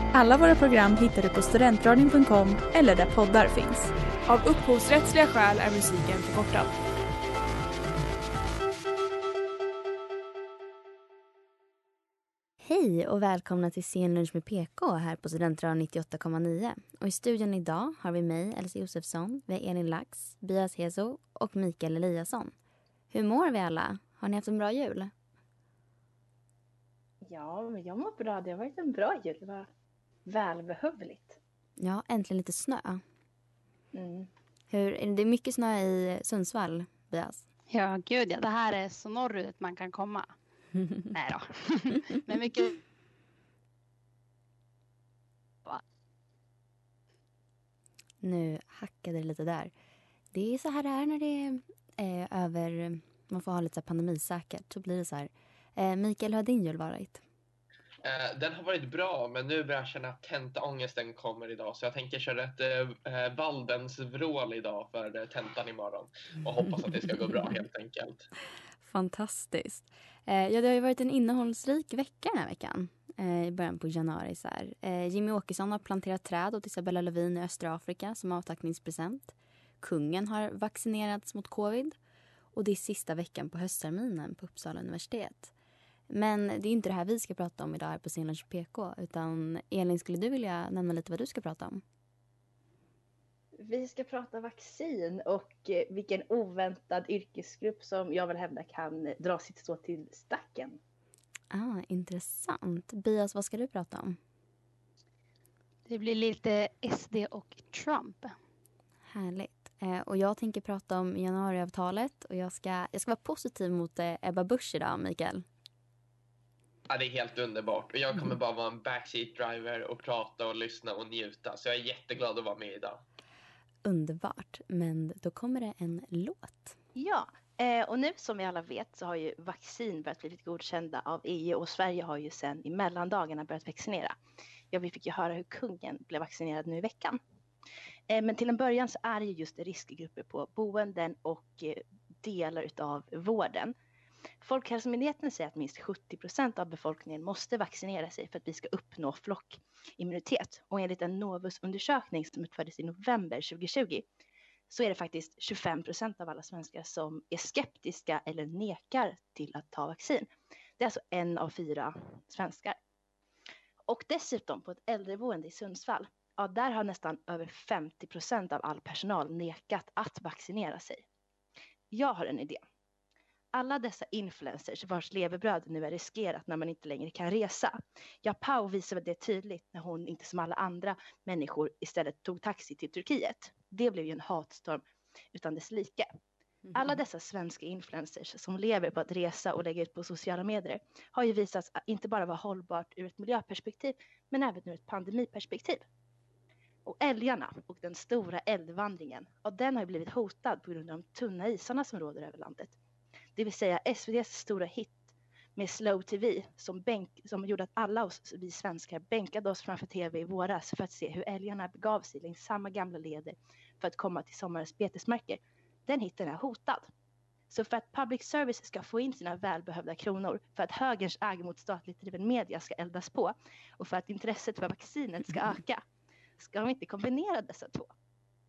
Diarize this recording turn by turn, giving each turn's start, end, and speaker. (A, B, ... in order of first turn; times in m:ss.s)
0:00.1-0:03.9 A
0:04.3-0:06.8 B
0:12.6-0:22.5 C
0:23.1-0:25.1 C
0:27.2-0:29.7 D
0:30.3-0:31.4 D
0:31.8-0:33.0 C
0:33.9-0:34.3 D
0:34.7-0:37.4 C
0:37.7-0:40.3 E
0:41.1-0:42.8 E
0:48.2-0:49.7 C
0:50.3-0:57.2 C
0:58.0-1:08.3 F
1:08.8-1:22.0 C
1:22.5-1:25.5 C
1:26.1-1:31.8 C
1:33.6-1:40.8 D
1:41.5-1:44.2 C
1:45.9-1:48.4 E
1:49.1-1:55.5 C
1:56.9-2:03.0 F
2:03.8-2:06.8 C
2:07.0-2:14.2 D
2:14.7-2:17.2 D
2:18.1-2:23.7 D
2:24.4-2:34.1 D
2:34.7-2:42.8 D
2:43.9-2:51.0 D
2:51.9-2:52.6 D
2:53.5-3:04.8 D
3:05.3-3:06.1 D
3:06.7-3:15.8 D
3:16.8-3:22.8 D
3:23.4-3:36.9 D
3:37.5-3:45.8 D
3:46.4-3:47.9 D